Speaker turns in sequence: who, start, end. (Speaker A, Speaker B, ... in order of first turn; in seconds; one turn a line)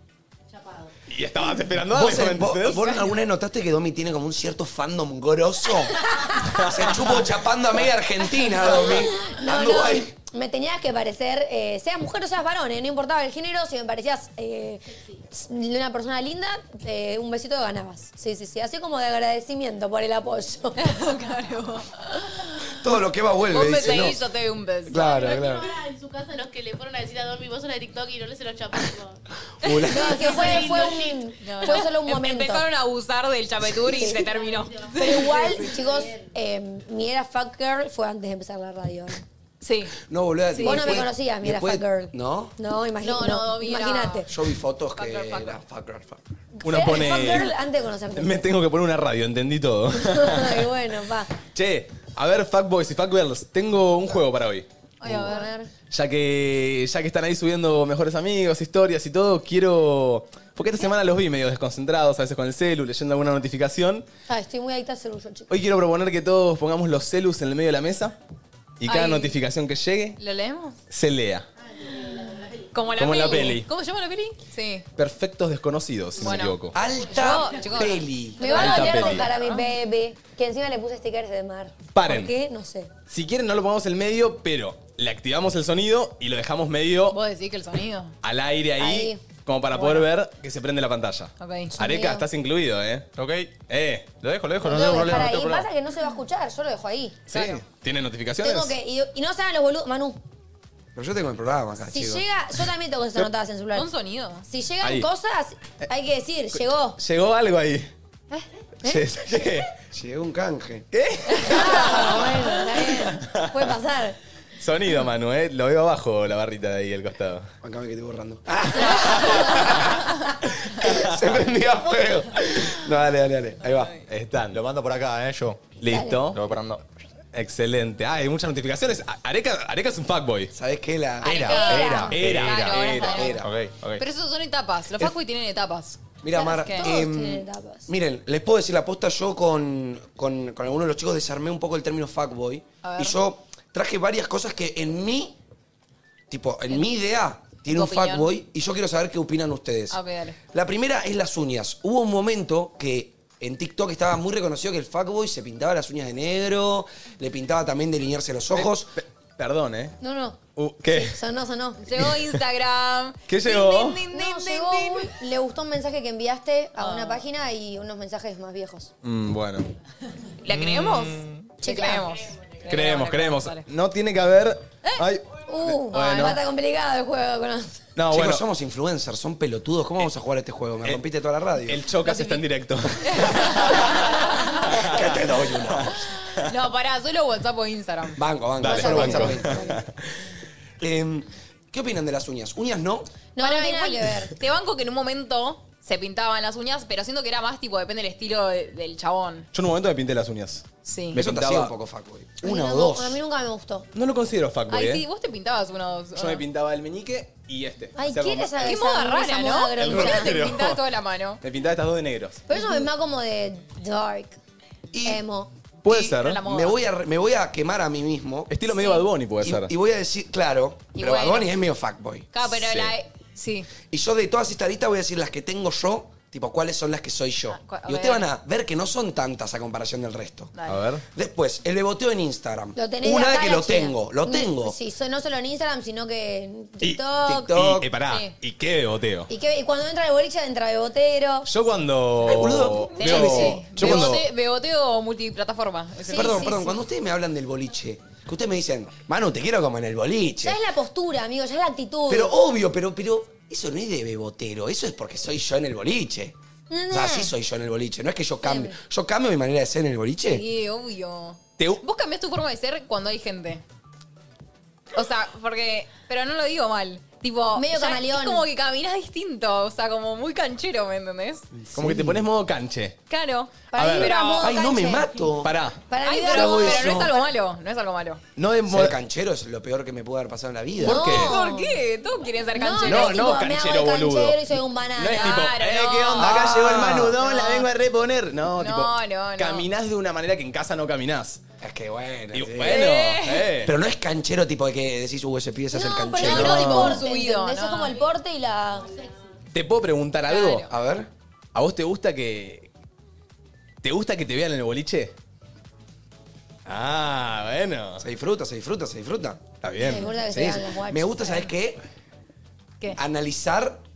Speaker A: 0.5-0.9
Speaker B: 1.1-3.0
Speaker C: 1.9-10.1
Speaker B: 6.6-7.1
Speaker D: 8.7-21.0
Speaker E: 20.8-22.4
Speaker C: 22.8-24.2
Speaker E: 23.5-25.3
Speaker C: 24.9-25.7
Speaker A: 24.9-29.2
Speaker C: 29.6-30.4
Speaker D: 29.9-32.7
Speaker A: 30.2-31.2
Speaker E: 30.4-30.8
Speaker E: 31.4-35.7
Speaker D: 33.9-34.2
Speaker A: 34.1-36.3
Speaker D: 34.9-39.2
Speaker E: 39.6-40.0
Speaker C: 40.0-42.5
Speaker E: 40.5-41.1
Speaker D: 40.6-44.3
Speaker E: 43.0-44.2
Speaker C: 44.3-46.2
Speaker E: 45.0-45.6
Speaker D: 46.5-48.5
Speaker B: 46.6-47.5
Speaker B: 48.1-50.7
Speaker D: 50.0-51.3
Speaker B: 51.4-54.6
Speaker E: 55.0-55.5
Speaker D: 55.1-55.7
Speaker B: 55.9-64.0
Speaker D: 64.3-65.5
Speaker B: 65.5-68.2
Speaker B: 68.8-70.2
Speaker E: 68.8-69.3
Speaker E: 70.2-70.8
Speaker B: 70.9-71.5
Speaker A: 71.6-73.2
Speaker E: 72.7-74.8
Speaker B: 73.0-73.7
Speaker B: 75.0-76.8
Speaker E: 76.2-79.7
Speaker C: 76.7-78.5
Speaker D: 78.4-82.9
Speaker B: 78.5-79.3
Speaker B: 81.9-82.3
Speaker B: 83.1-87.2
Speaker E: 87.1-88.1
Speaker B: 88.2-93.1
Speaker D: 88.8-89.2
Speaker E: 89.7-90.1
Speaker E: 91.4-91.7
Speaker D: 91.8-92.2
Speaker F: 93.2-93.5
Speaker B: 93.7-94.1
Speaker F: 94.2-95.7
Speaker D: 94.6-97.2
Speaker B: 97.3-98.7
Speaker E: 97.3-97.6
Speaker D: 98.4-100.2
Speaker C: 100.9-102.2
Speaker D: 101.9-103.9
Speaker E: 103.7-104.4
Speaker D: 104.5-107.0
Speaker B: 104.8-105.1
Speaker B: 106.5-107.9
Speaker B: 108.8-109.7
Speaker C: 109.9-110.8
Speaker B: 110.9-112.2
Speaker D: 111.5-114.2
Speaker B: 112.8-113.7
Speaker B: 114.6-117.5
Speaker C: 117.6-124.0
Speaker B: 120.8-121.2
Speaker B: 124.1-124.6
Speaker F: 124.5-125.7
Speaker B: 125.8-126.4
Speaker D: 125.9-126.3
Speaker F: 126.3-126.8
Speaker B: 127.3-130.5
Speaker C: 130.5-131.6
Speaker F: 131.2-134.0
Speaker E: 131.2-133.4
Speaker D: 131.3-132.2
Speaker B: 132.1-133.2
Speaker C: 133.0-133.5
Speaker E: 134.0-136.9
Speaker C: 136.2-145.4
Speaker D: 136.3-137.9
Speaker E: 142.8-143.2
Speaker C: 146.3-150.0
Speaker E: 147.7-148.3
Speaker E: 149.9-150.4
Speaker C: 150.5-158.9
Speaker B: 158.5-160.0
Speaker D: 160.0-161.8
Speaker B: 160.6-161.2
Speaker E: 161.8-165.1
Speaker B: 162.0-162.3
Speaker B: 163.3-164.0
Speaker D: 164.1-168.9
Speaker E: 166.8-167.2
Speaker B: 169.0-169.7
Speaker E: 170.4-173.6
Speaker B: 170.7-171.1
Speaker D: 171.6-172.1
Speaker B: 172.7-176.4
Speaker D: 175.5-177.8
Speaker E: 175.9-176.3
Speaker B: 177.9-178.4
Speaker C: 178.1-181.8
Speaker B: 181.6-184.1
Speaker E: 182.0-182.4
Speaker E: 183.0-184.7
Speaker C: 184.6-186.0
Speaker B: 184.7-185.2
Speaker E: 186.3-188.2
Speaker C: 188.2-189.8
Speaker B: 188.6-189.8
Speaker D: 188.6-189.8
Speaker C: 190.8-193.2
Speaker D: 193.3-194.3
Speaker E: 193.4-199.5
Speaker B: 199.5-201.7
Speaker E: 200.8-201.2
Speaker C: 201.1-203.2
Speaker D: 202.4-203.9
Speaker B: 203.9-205.0
Speaker E: 204.7-206.4
Speaker B: 206.2-208.7
Speaker D: 207.9-210.4
Speaker E: 208.6-211.4
Speaker B: 209.8-210.8
Speaker B: 211.4-212.4
Speaker D: 212.5-214.3
Speaker C: 214.9-215.2
Speaker D: 215.0-215.5
Speaker B: 215.8-216.4
Speaker C: 215.8-218.5
Speaker E: 216.2-216.8
Speaker B: 218.5-219.7
Speaker E: 218.8-219.0
Speaker C: 219.4-222.3
Speaker E: 220.9-221.5
Speaker E: 222.3-223.7
Speaker B: 222.6-222.9
Speaker C: 223.9-230.5
Speaker E: 227.5-228.3
Speaker E: 230.5-230.8
Speaker B: 230.7-231.0
Speaker C: 231.1-234.8
Speaker D: 232.8-237.5
Speaker B: 236.8-239.3
Speaker C: 237.2-237.9
Speaker E: 238.1-238.3
Speaker D: 239.3-241.5
Speaker B: 241.4-244.2
Speaker C: 242.2-244.2
Speaker E: 242.9-246.7
Speaker D: 246.1-246.8
Speaker C: 246.1-250.6
Speaker D: 250.4-252.3
Speaker C: 252.1-256.3
Speaker D: 256.7-257.3
Speaker C: 256.9-260.4
Speaker D: 258.4-258.8
Speaker E: 260.2-263.6
Speaker E: 264.9-271.4
Speaker D: 267.5-268.4
Speaker C: 271.6-272.2
Speaker B: 271.7-273.0
Speaker E: 273.1-274.6
Speaker D: 273.7-275.2
Speaker B: 273.7-274.1
Speaker C: 274.4-275.6
Speaker B: 275.4-275.8
Speaker D: 275.9-277.1
Speaker E: 276.0-278.2
Speaker C: 276.3-277.1
Speaker B: 278.4-279.0
Speaker C: 278.7-281.3
Speaker B: 280.8-281.4
Speaker D: 280.8-281.8
Speaker E: 281.1-283.4
Speaker D: 282.5-285.5
Speaker B: 282.8-291.4
Speaker E: 285.1-286.6
Speaker C: 286.2-287.1
Speaker E: 287.1-287.7
Speaker E: 288.6-289.7
Speaker C: 291.6-292.9
Speaker B: 292.3-293.7
Speaker E: 292.6-293.5
Speaker C: 293.6-297.0
Speaker D: 295.7-298.9
Speaker B: 296.2-297.0
Speaker E: 296.2-298.0
Speaker A: 298.8-299.1
Speaker B: 299.5-300.7
Speaker E: 300.3-300.7
Speaker C: 300.7-301.1
Speaker B: 301.5-302.7
Speaker B: 303.8-305.1
Speaker B: 306.6-308.0
Speaker C: 308.0-309.4
Speaker B: 309.6-310.2
Speaker D: 309.8-311.5
Speaker C: 310.3-311.8
Speaker C: 312.9-313.8